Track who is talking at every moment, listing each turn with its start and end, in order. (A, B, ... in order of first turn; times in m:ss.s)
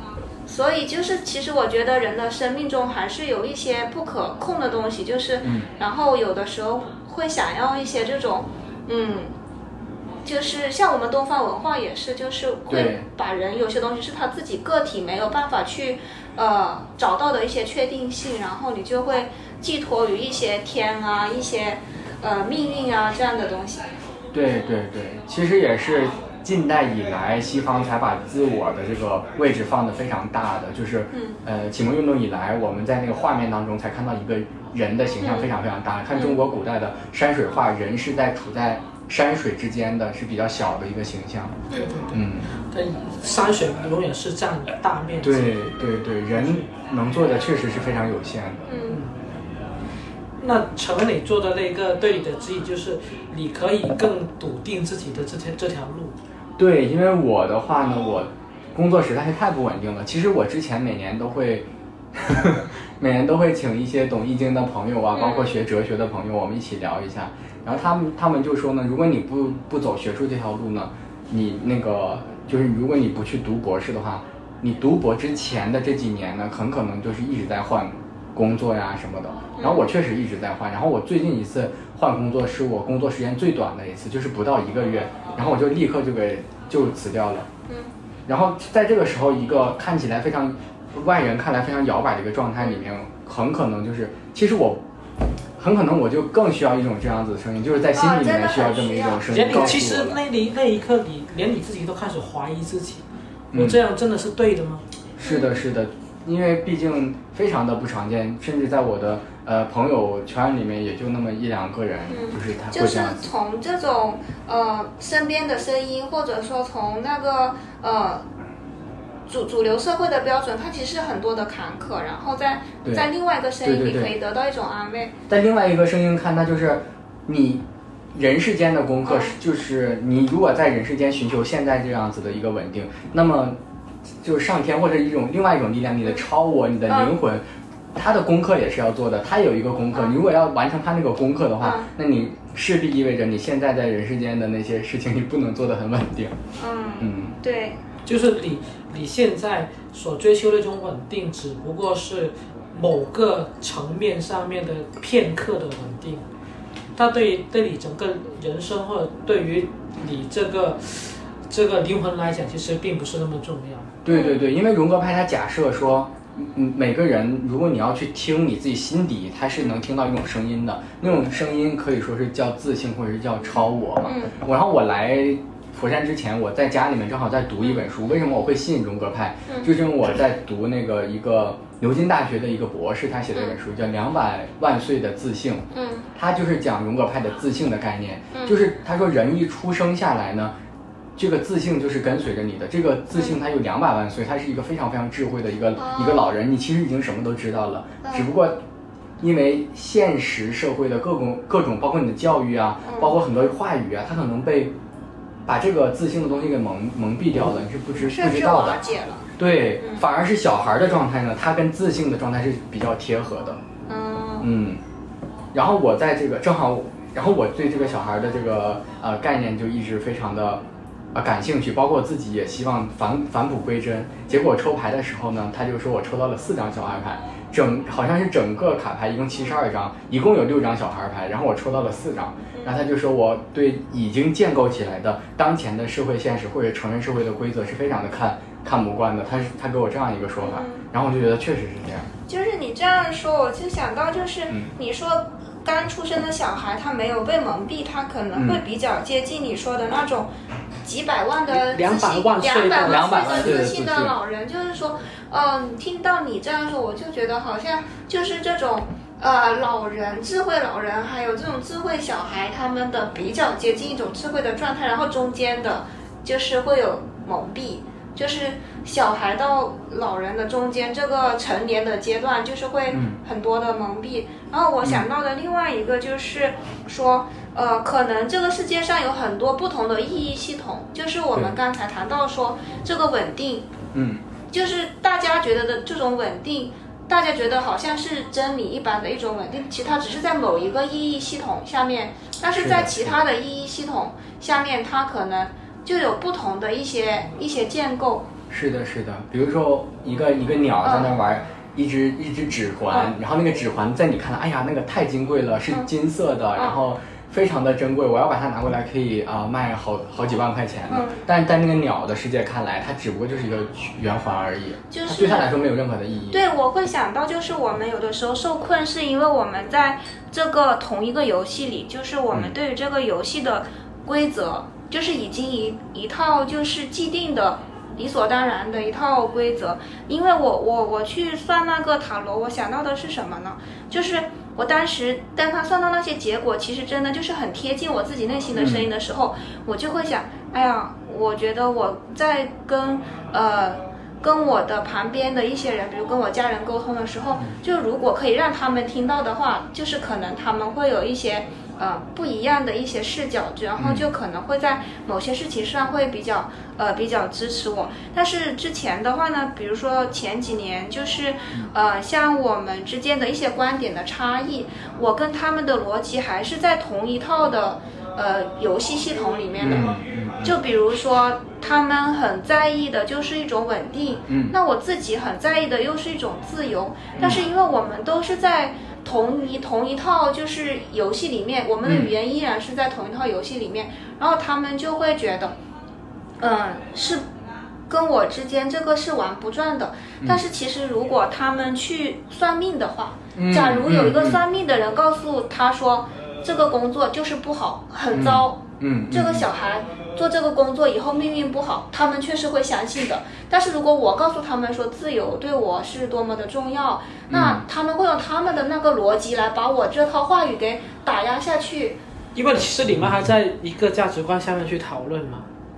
0:00.5-0:09.3 A
0:05.4-0:05.7 B
0:10.2-0:23.8 A
0:12.7-0:13.1 B
0:24.3-0:42.5 B
0:31.1-0:31.4 A
0:35.2-0:35.5 A
0:36.1-0:36.5 A
0:41.8-0:45.7 C
0:45.2-0:48.7 B
0:46.3-0:46.6 C
0:48.7-0:49.0 A
0:48.9-0:49.2 C
0:50.4-0:56.1 C
0:56.6-1:27.5 B
1:05.1-1:05.6 A
1:19.6-1:19.9 A
1:28.3-1:34.8 B
1:35.6-1:40.2 B
1:37.9-1:39.8 A
1:39.3-1:44.8 C
1:43.5-1:43.8 B
1:45.2-1:53.3 B
1:45.2-1:45.6 A
1:52.1-1:58.2 A
1:59.3-2:05.1 A
2:02.8-2:03.1 B
2:03.6-2:04.1 B
2:05.3-2:13.6 B
2:09.1-2:09.4 A
2:14.2-2:17.4 B
2:16.9-2:17.1 A
2:17.9-2:26.4 B
2:21.6-2:21.9 A
2:26.6-2:27.8 A
2:27.0-2:27.3 B
2:28.1-2:36.2 C
2:37.0-2:43.9 C
2:44.0-3:10.5 B
2:44.1-2:44.4 A
2:54.0-2:54.3 A
3:05.7-3:06.1 A
3:08.3-3:08.6 A
3:11.2-3:18.6 B
3:15.8-3:16.2 A
3:18.0-3:18.3 A
3:19.2-3:24.7 B
3:22.8-3:23.2 A
3:25.4-3:28.8 B
3:28.0-3:30.0 A
3:29.4-3:33.6 B
3:33.9-3:34.5 A
3:34.4-3:34.8 B
3:35.5-3:40.6 B
3:41.1-4:02.1 B
3:52.5-3:52.8 A
4:00.4-4:00.8 A
4:02.3-4:10.3 A
4:08.3-4:08.6 B
4:10.8-4:43.7 A
4:11.5-4:13.6 C
4:12.8-4:14.2 B
4:32.9-4:33.2 B
4:43.9-4:44.2 B
4:44.5-4:58.3 A
4:52.5-4:53.2 B
4:58.5-5:16.4 B
5:00.8-5:01.1 A
5:10.9-5:11.2 A
5:14.9-5:15.5 A
5:16.3-6:25.6 A
5:38.5-5:38.9 B
5:53.8-5:54.1 B
6:09.6-6:10.5 B
6:14.3-6:14.6 B
6:17.2-6:17.4 B
6:21.8-6:22.2 B
6:26.4-6:27.2 A
6:27.9-6:52.0 A
6:33.3-6:34.4 B
6:38.1-6:39.5 B
6:47.3-6:47.6 B
6:52.3-6:55.5 C